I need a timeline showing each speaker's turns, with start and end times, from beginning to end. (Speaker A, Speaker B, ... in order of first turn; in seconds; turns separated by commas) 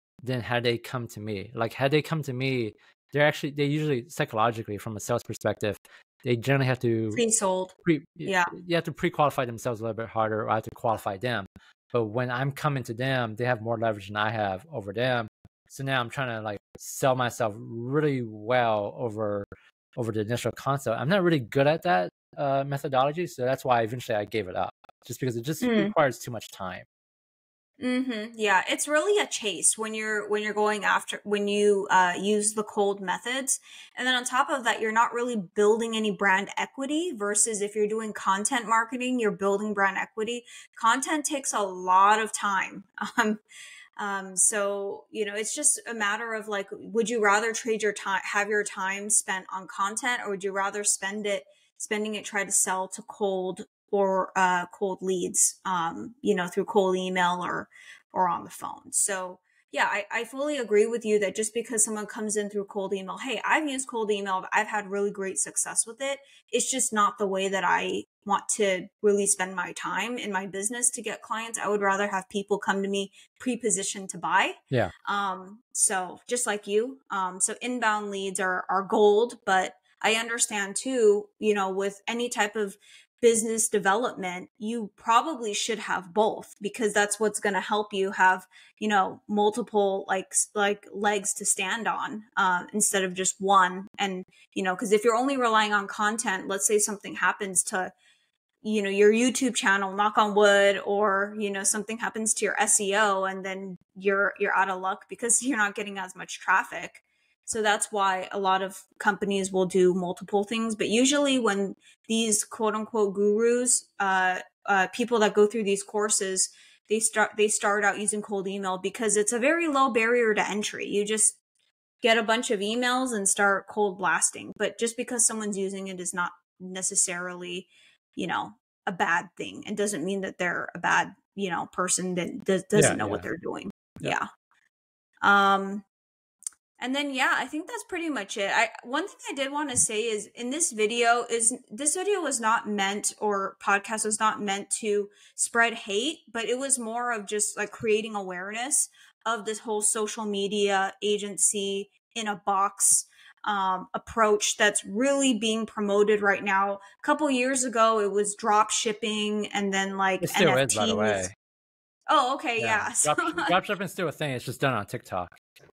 Speaker A: 0.2-7.2, Speaker B: 7.1-8.5, Speaker A: 7.8-26.8, Speaker B: 25.6-25.9, Speaker B: 27.8-43.4, Speaker B: 44.0-97.9, Speaker B: 98.6-121.4, Speaker B: 122.0-134.3, Speaker A: 132.7-133.2, Speaker B: 135.2-135.8, Speaker B: 136.8-161.3, Speaker A: 160.2-161.3, Speaker B: 162.1-163.5, Speaker A: 162.6-165.4